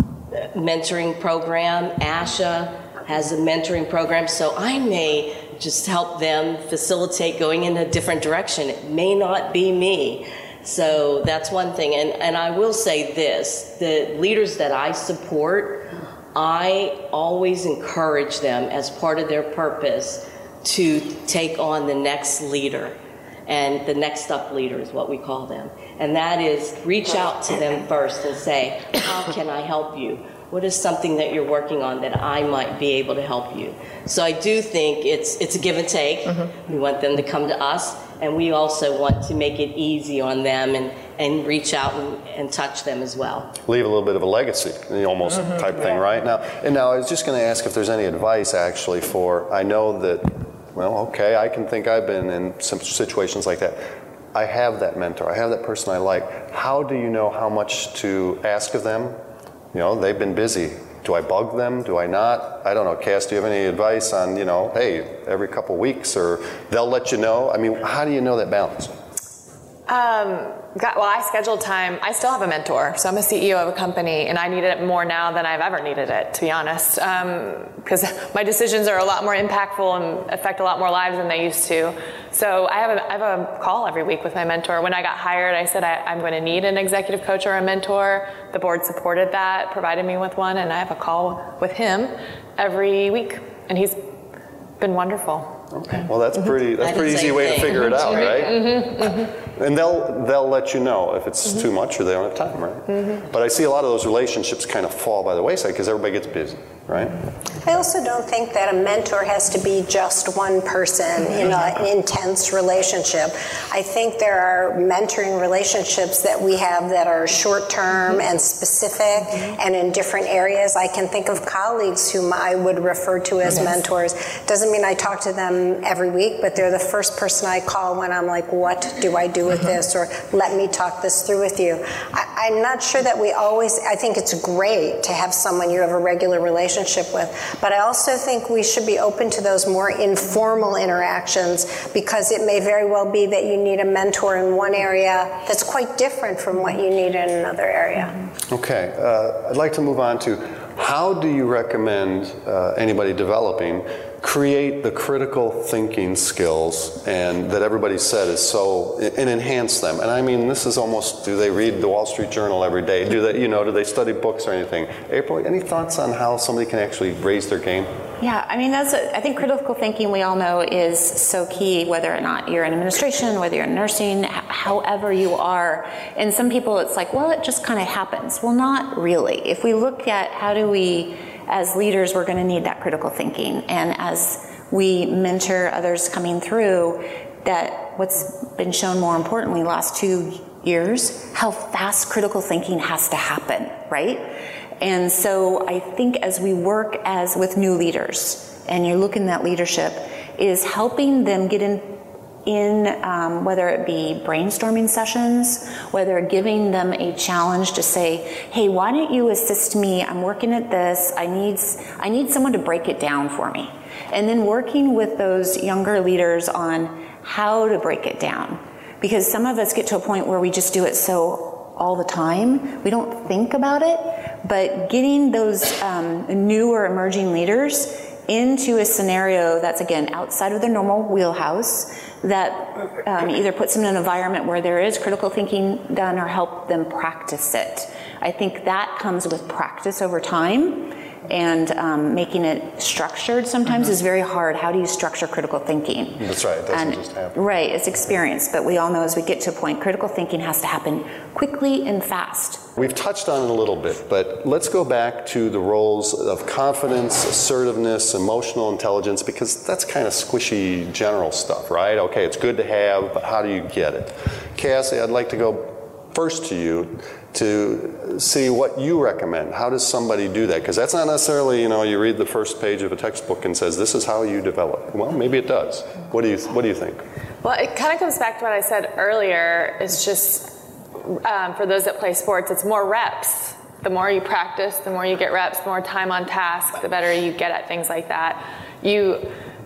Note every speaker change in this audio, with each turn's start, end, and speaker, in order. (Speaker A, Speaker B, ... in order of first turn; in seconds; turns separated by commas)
Speaker A: 0.3-22.9, Speaker A: 23.5-43.5, Speaker B: 43.6-59.2, Speaker B: 59.7-68.9, Speaker C: 69.9-94.0, Speaker C: 94.8-95.6, Speaker B: 95.7-107.2, Speaker A: 96.8-98.7, Speaker C: 103.0-103.2, Speaker D: 107.6-148.2, Speaker B: 148.5-167.9, Speaker E: 168.2-194.3, Speaker E: 194.8-252.6, Speaker B: 246.2-247.4, Speaker B: 252.8-277.0, Speaker C: 277.4-289.4